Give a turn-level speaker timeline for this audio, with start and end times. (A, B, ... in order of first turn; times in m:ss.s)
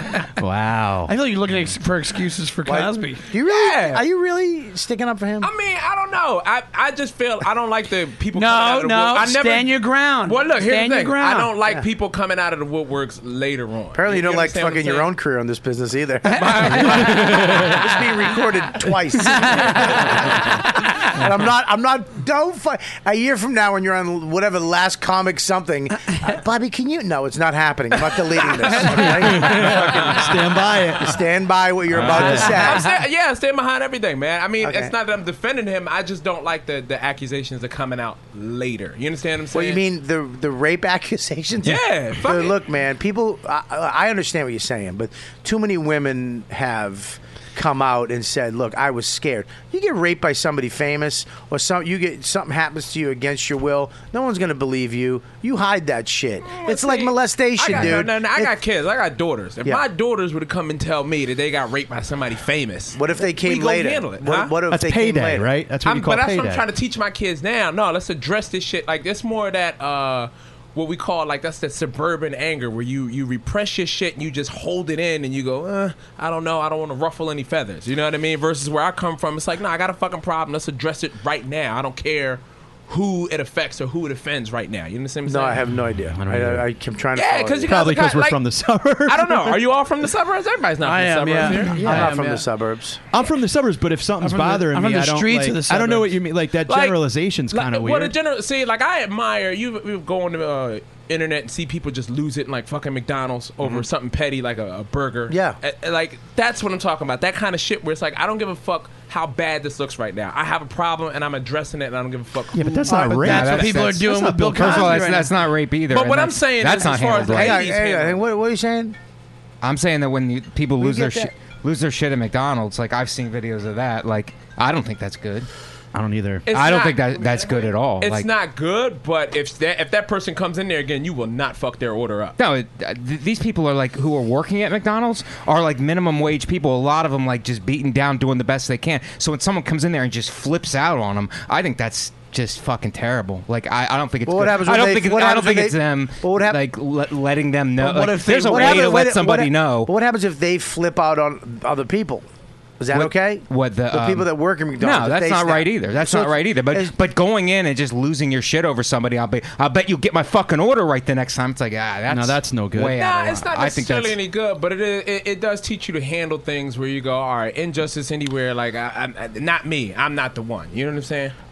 0:00.4-0:01.1 A
0:01.1-0:03.2 B
0:02.6-0:05.5 C
0:03.4-0:04.0 D
0:05.4-0:15.1 D
0:08.3-0:11.5 B
0:13.9-0:30.3 C
0:16.3-0:17.9 D
0:28.8-0:31.2 A
0:31.0-0:32.9 C
0:31.9-0:32.7 A
0:31.9-0:39.8 D
0:34.6-0:34.9 C
0:39.5-0:58.5 C
0:41.6-0:42.6 D
0:56.4-1:04.5 D
1:02.9-1:05.5 C
1:04.7-1:06.6 A
1:05.8-1:25.6 D
1:25.2-1:27.7 C
1:26.1-1:26.6 A
1:27.1-1:28.4 D
1:27.6-1:29.6 A
1:29.0-1:31.8 D
1:30.8-1:32.4 B
1:31.7-1:32.1 A
1:31.8-1:33.0 C
1:33.1-1:38.1 A
1:34.2-1:36.2 B
1:36.7-1:37.0 D
1:37.5-1:53.2 D
1:45.3-1:45.6 C
1:52.5-1:55.0 A
1:52.8-1:55.4 B
1:53.2-1:57.7 E
1:55.9-1:58.2 D
1:57.2-1:59.0 C
1:59.6-2:05.5 E
2:00.8-2:01.3 C
2:05.9-2:06.4 A
2:06.5-2:12.4 D
2:06.5-2:08.3 E
2:12.4-2:29.9 E
2:24.2-2:26.6 C
2:27.8-2:29.0 B
2:28.4-2:32.2 C
2:32.8-2:37.0 C
2:32.9-2:44.2 E
2:42.1-2:43.0 A
2:43.0-2:51.3 D